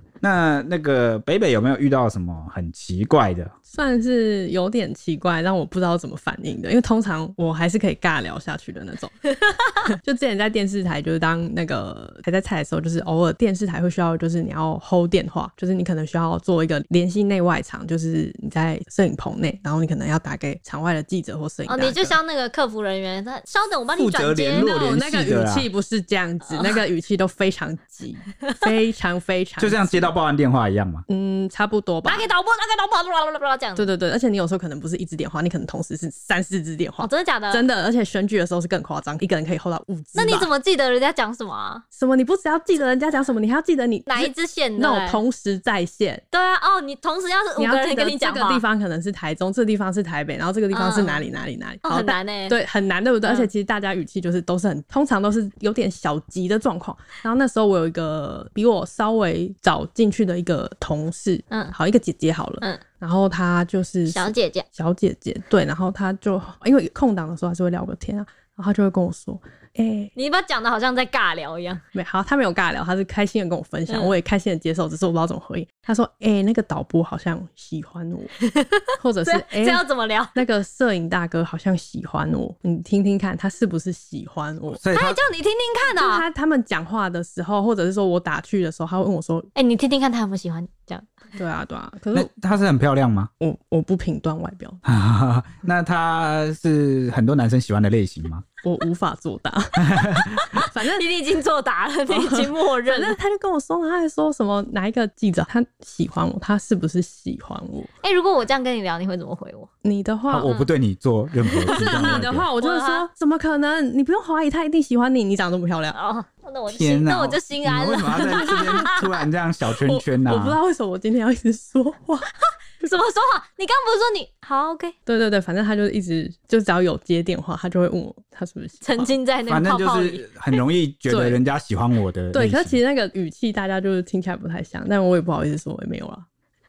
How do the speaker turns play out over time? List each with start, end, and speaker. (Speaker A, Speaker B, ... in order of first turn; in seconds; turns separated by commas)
Speaker A: 0.2-3.5, Speaker B: 3.7-9.3, Speaker C: 9.4-9.7, Speaker B: 9.9-22.2, Speaker C: 21.6-24.7, Speaker A: 23.9-25.7, Speaker B: 24.6-30.1, Speaker A: 29.6-31.0, Speaker B: 31.1-32.3, Speaker C: 32.1-33.9, Speaker B: 33.8-40.5, Speaker C: 37.0-37.6, Speaker C: 40.1-41.8, Speaker B: 41.9-46.2, Speaker C: 44.1-45.2, Speaker C: 46.3-48.6, Speaker B: 47.6-70.1, Speaker C: 50.7-51.2, Speaker C: 51.8-52.6, Speaker C: 64.1-64.7, Speaker C: 70.1-71.8, Speaker B: 71.9-78.3, Speaker C: 73.9-74.1, Speaker C: 78.4-80.3, Speaker B: 79.0-79.8, Speaker B: 80.3-84.8, Speaker A: 84.8-85.2, Speaker C: 84.9-86.3, Speaker B: 85.9-89.5, Speaker C: 89.5-91.1, Speaker B: 91.4-92.3, Speaker A: 92.1-93.3, Speaker B: 93.4-94.8, Speaker A: 94.8-98.4, Speaker B: 98.6-100.1, Speaker A: 99.8-100.5, Speaker C: 100.5-103.2, Speaker B: 100.6-101.1, Speaker B: 102.1-107.9, Speaker C: 108.0-109.7, Speaker B: 109.8-110.5, Speaker A: 110.3-112.5, Speaker C: 111.6-113.1, Speaker B: 111.6-116.0, Speaker C: 115.9-119.0, Speaker A: 116.7-120.6, Speaker B: 118.3-118.8, Speaker B: 119.8-122.3, Speaker C: 122.8-124.9, Speaker B: 125.1-129.1, Speaker C: 128.8-130.3, Speaker A: 129.5-132.8, Speaker B: 131.1-131.4, Speaker B: 132.3-136.3